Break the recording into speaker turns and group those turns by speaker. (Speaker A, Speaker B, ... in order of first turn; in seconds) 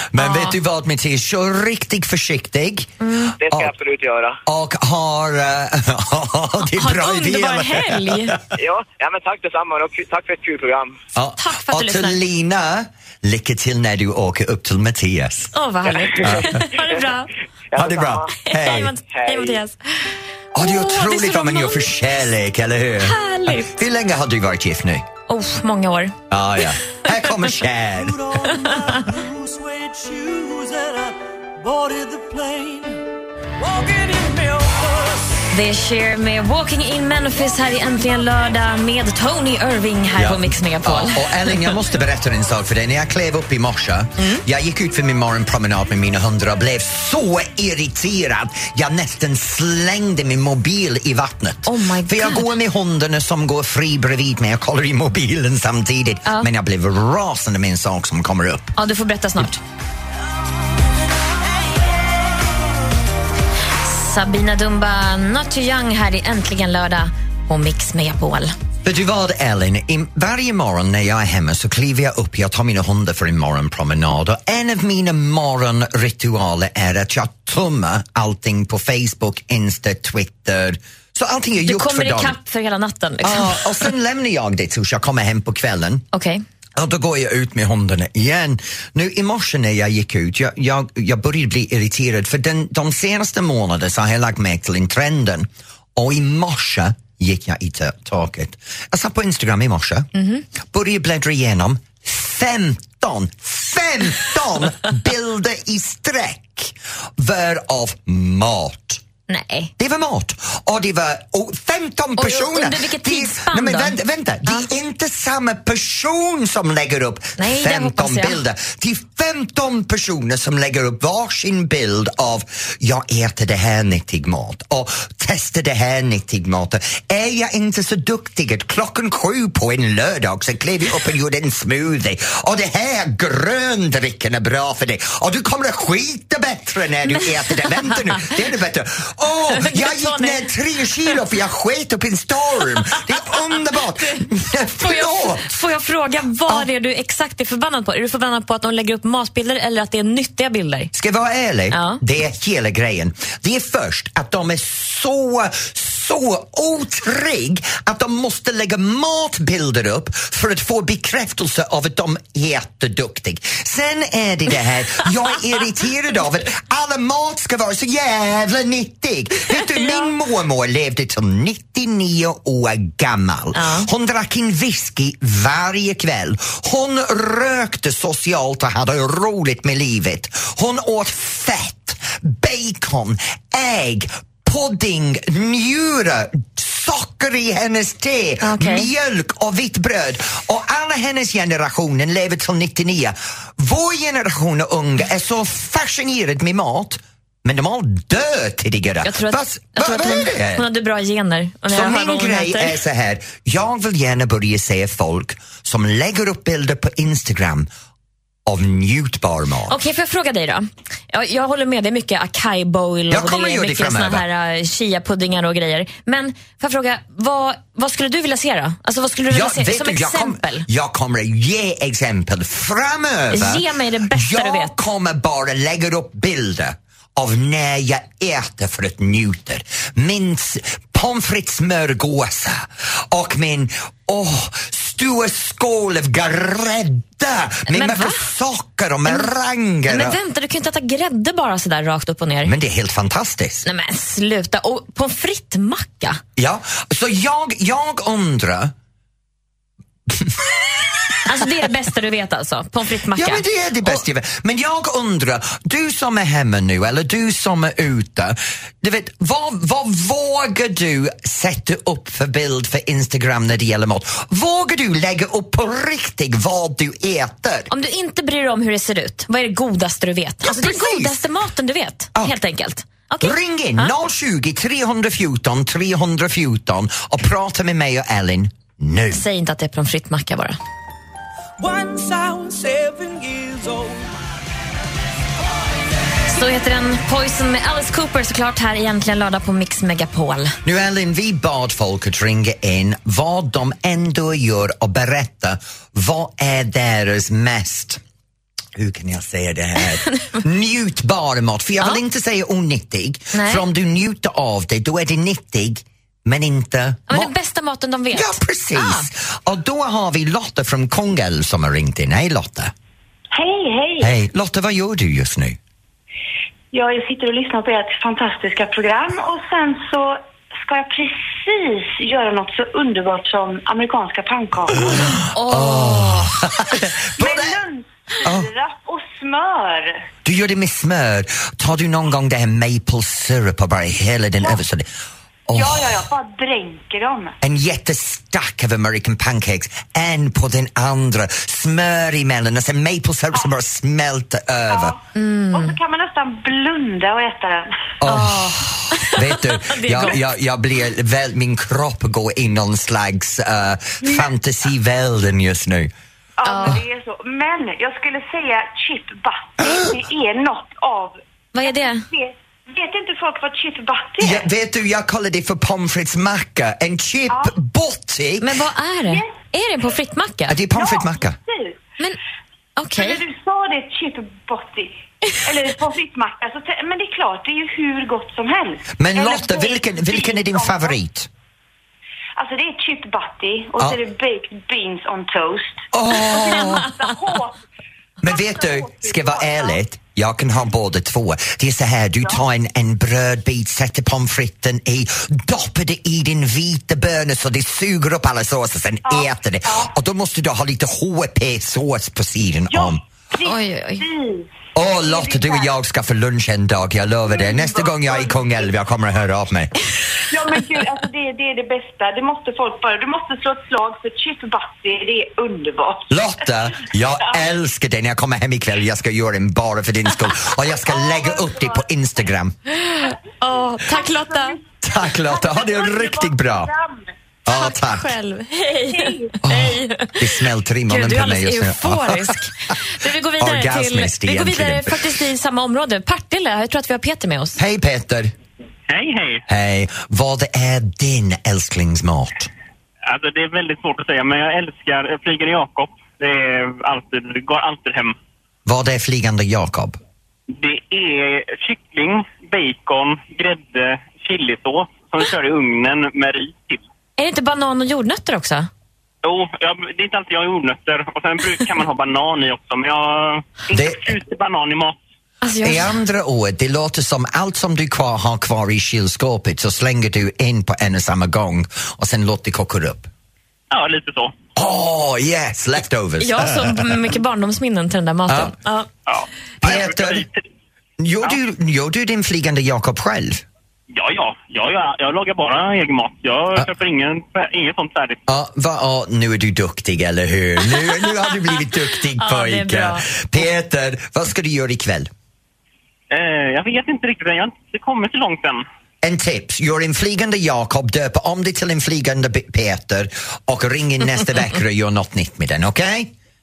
Speaker A: 0.1-2.9, 3.5-3.7, 4.5-8.4, 11.2-15.5, 16.2-16.6, 17.8-18.9, 20.5-25.1, 26.3-28.2, 40.1-58.7, 68.8-82.3, 83.2-86.0, 86.8-100.1, 100.7-109.0, 109.8-145.5, 150.9-200.7, 201.7-207.7, 208.4-209.8, 213.1-214.2, 219.3-240.2, 242.4-243.6, 246.4-248.7, 250.1-251.2, 253.1-267.7, 270.4-271.1, 273.2-279.2, 290.6-298.0, 298.7-307.3, 308.1-312.7, 314.0-315.6, 324.9-327.6, 330.2-334.9, 335.5-336.0, 337.4-344.9, 348.0-355.9, 364.2-368.6, 370.5-371.4, 379.0-381.3, 385.9-386.9, 388.2-403.0, 404.7-409.7, 416.1-422.6, 424.8-426.7, 427.4-428.1, 429.4-432.4, 433.4-435.2, 437.6-438.3, 439.5-442.5, 448.6-450.0, 463.7-464.1, 465.6-473.1, 474.6-476.9, 478.3-478.5, 479.6-480.3, 481.0-483.4, 488.3-495.1, 499.0-506.1
Speaker B: 0.2-0.6, 3.0-3.4, 6.8-8.4, 11.4-12.2, 15.5-17.3, 18.4-21.9, 23.0-23.7, 25.3-26.1, 28.5-29.1, 35.5-41.6, 44.2-44.4, 51.6-52.5, 58.8-59.6, 63.8-68.5, 81.6-83.8, 86.1-86.4, 100.1-100.4, 109.3-109.7, 112.2-114.7, 117.4-118.4, 137.2-137.7, 139.5-140.5, 143.0-144.1, 144.8-150.9, 151.7-152.0, 173.5-173.9, 188.4-188.9, 199.0-202.8, 209.7-220.7, 223.3-224.7, 237.7-238.3, 239.9-242.5, 243.6-246.2, 251.2-254.0, 267.7-273.9, 279.1-280.6, 286.3-290.6, 303.3-303.6, 307.1-309.1, 325.3-326.3, 345.1-345.8, 348.1-350.2, 356.4-356.8, 361.5-362.0, 368.4-370.6, 372.8-373.2, 403.4-404.0, 422.7-424.6, 427.5-437.6, 457.2-458.7, 465.4-465.9, 476.2-478.9, 492.2-493.1
Speaker C: 3.4-4.4, 8.6-11.0, 17.7-19.6
Speaker D: 27.9-33.0, 33.6-35.4, 281.6-284.1
Speaker E: 313.3-314.1, 316.7-320.1, 320.7-325.2, 327.2-329.9, 335.5-337.3, 344.7-344.9, 345.5-347.7, 356.4-361.1, 362.1-364.4, 370.8-371.7, 373.0-374.9, 375.4-380.9, 382.4-387.5, 388.8-389.5, 399.1-399.9, 402.7-403.5, 404.0-404.4, 405.1-405.6, 407.5-407.8, 410.3-416.2
Speaker F: 438.9-439.4, 443.0-448.1, 450.5-456.8, 459.2-465.0, 473.7-474.4, 479.1-480.4, 483.9-488.2, 496.1-498.6